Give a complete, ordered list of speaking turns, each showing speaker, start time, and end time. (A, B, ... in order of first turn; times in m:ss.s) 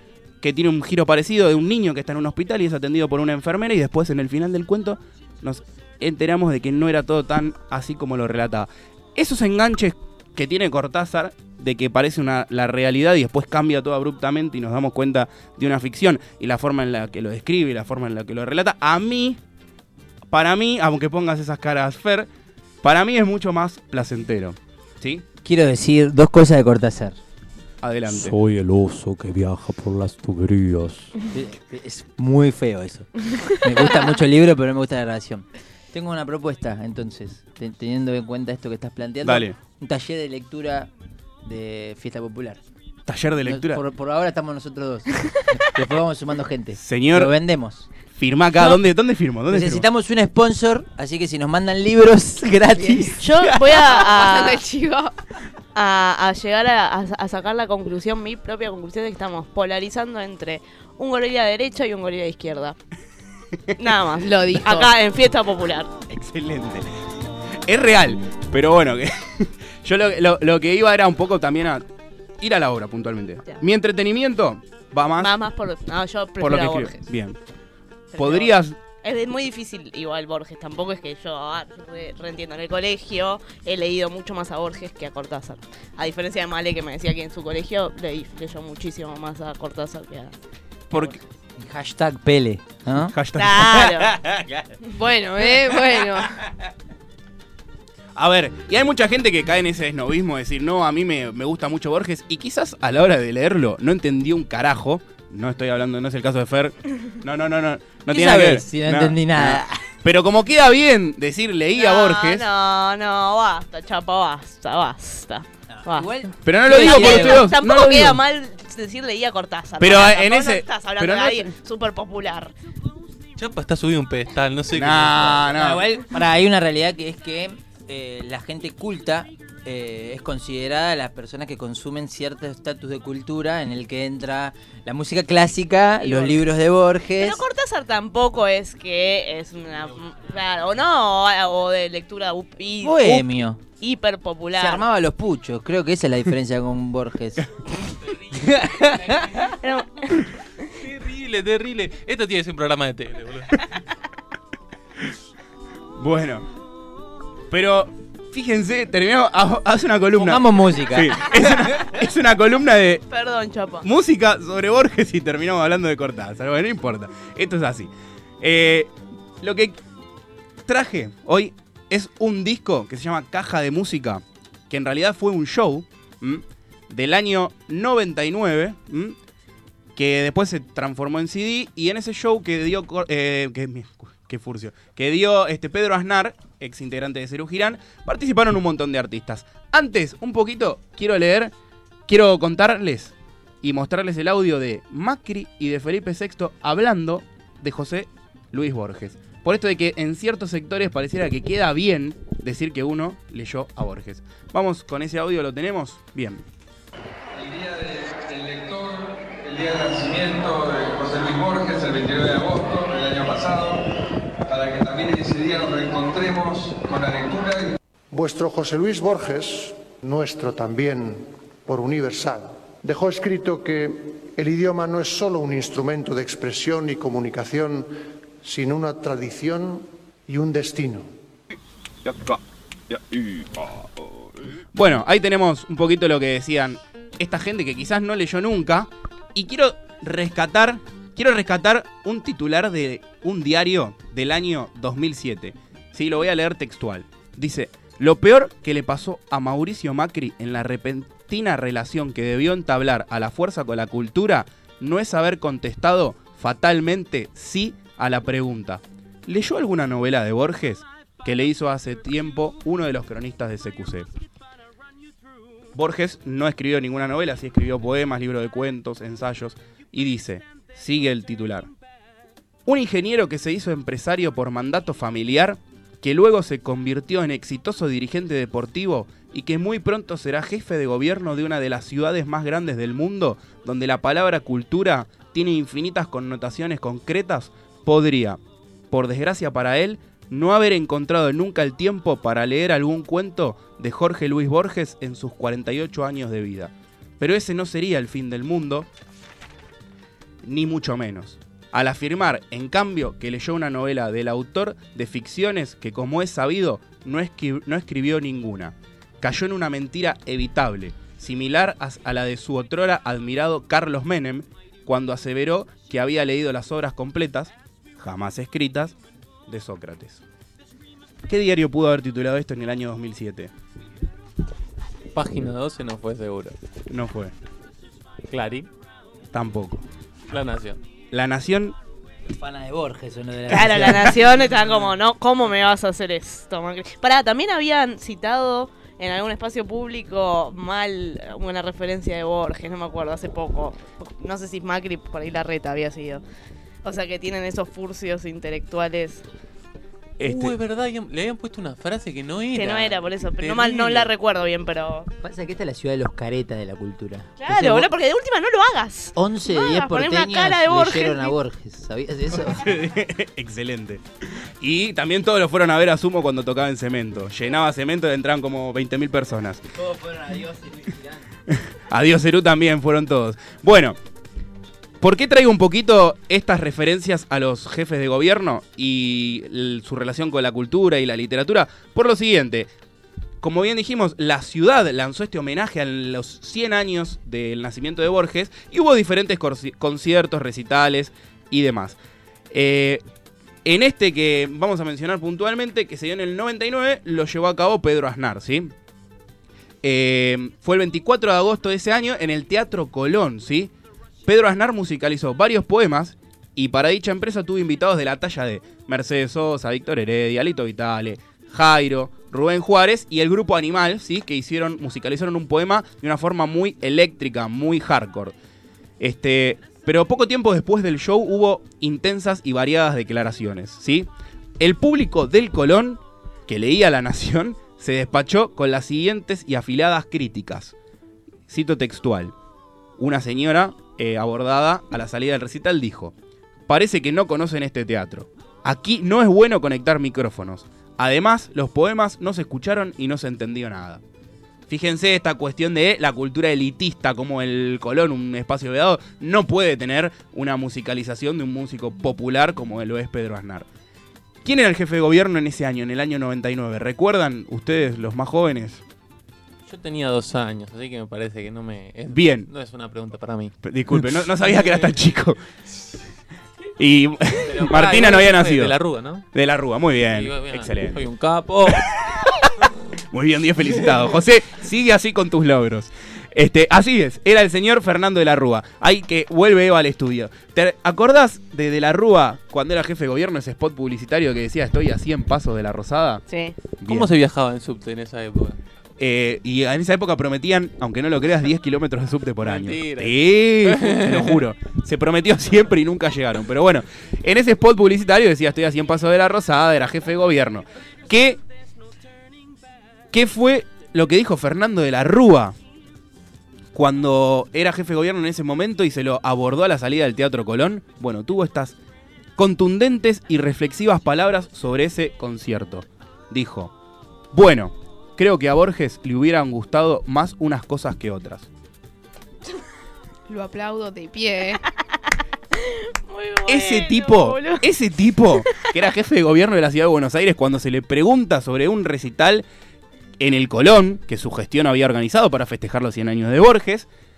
0:00.4-0:19.4 A
0:20.3-0:22.3 A
0:22.8-0:25.2 A
0:25.4-0:27.2 B
0:27.8-0:28.4 A
0:28.1-0:31.1 C
0:31.3-0:40.9 B
0:39.2-0:39.6 A
0:41.4-0:42.6 B
0:43.1-0:43.8 A
0:43.5-0:47.9 B
0:46.8-0:47.4 A
0:48.1-0:49.9 A
0:49.5-0:53.3 B
0:53.2-0:54.6 D
0:53.7-0:55.1 E
0:55.7-1:02.8 D
1:03.8-1:05.9 D
1:04.2-1:04.9 E
1:06.1-1:07.0 A
1:07.6-1:11.8 A
1:12.4-1:15.3 A
1:15.2-1:17.1 D
1:16.4-1:17.4 A
1:18.1-1:30.4 D
1:18.2-1:18.8 A
1:30.9-1:31.2 D
1:30.9-1:31.2 A
1:31.6-1:33.1 B
1:33.1-1:34.0 A
1:33.4-1:34.2 D
1:35.0-1:36.3 E
1:38.2-1:52.4 A
1:48.1-1:49.9 B
1:51.8-2:02.5 D
1:55.7-1:57.5 B
1:56.4-1:58.2 A
1:59.8-2:01.5 A
2:03.4-2:05.6 F
2:04.8-2:05.8 A
2:05.5-2:17.4 B
2:16.0-2:16.4 D
2:17.2-2:24.8 D
2:22.8-2:23.6 B
2:24.6-2:27.5 B
2:28.4-2:29.3 B
2:29.5-2:30.2 D
2:30.8-2:33.6 F
2:36.0-2:36.4 A
2:37.5-2:43.0 A
2:40.2-2:41.6 B
2:43.1-2:43.9 D
2:43.8-2:47.9 A
2:48.4-2:49.8 A
2:50.7-2:59.2 A
3:00.0-3:11.5 A
3:12.1-3:26.4 A
3:27.3-3:33.8 G
3:34.5-3:37.8 G
3:38.1-3:47.9 H
3:48.4-3:51.1 H
3:54.7-4:24.1 A
4:25.8-4:31.7 A
4:32.7-4:48.4 A
4:48.9-4:58.9 A
5:00.4-5:19.0 A
5:19.5-5:20.2 A
5:21.3-5:23.5 A
5:25.1-5:26.6 F
5:26.9-5:27.3 A
5:28.3-5:28.7 F
5:29.3-5:29.8 A
5:30.3-5:30.8 F
5:31.1-5:31.8 A
5:32.3-5:34.2 B
5:33.5-5:46.2 D
5:46.8-5:49.2 D
5:50.2-5:50.6 A
5:50.2-5:54.1 F
5:52.5-5:55.1 D
5:55.2-5:57.9 B
5:57.4-6:01.4 D
5:59.2-6:02.7 B
6:02.4-6:09.6 A
6:09.8-6:11.2 B
6:11.5-6:14.0 A
6:15.0-6:22.7 A
6:23.4-6:32.0 A
6:32.5-6:33.0 A
6:33.6-6:38.7 A
6:39.8-6:43.7 A
6:44.3-6:58.3 A
6:59.0-7:04.1 A
7:04.6-7:10.7 A
7:11.5-7:12.3 A
7:13.0-7:16.1 A
7:16.7-7:24.0 A
7:24.7-7:33.7 A
7:34.4-7:38.8 A
7:39.7-7:44.9 F
7:42.1-7:42.5 A
7:43.6-7:45.4 A
7:46.8-7:48.8 A
7:47.4-7:49.3 F
7:49.3-7:51.0 A
7:50.0-7:51.9 F
7:51.7-7:52.2 A
7:53.1-8:06.2 A
8:06.3-8:06.6 D
8:06.8-8:07.1 A
8:06.8-8:08.6 F
8:09.0-8:21.4 A
8:12.4-8:14.4 F
8:23.1-8:25.6 A
8:26.7-8:31.8 A
8:32.4-8:36.7 A
8:37.3-8:41.5 A
8:43.3-8:44.6 E
8:44.8-8:47.7 D
8:46.5-8:52.4 A
8:48.3-8:48.8 D
8:53.2-8:56.9 A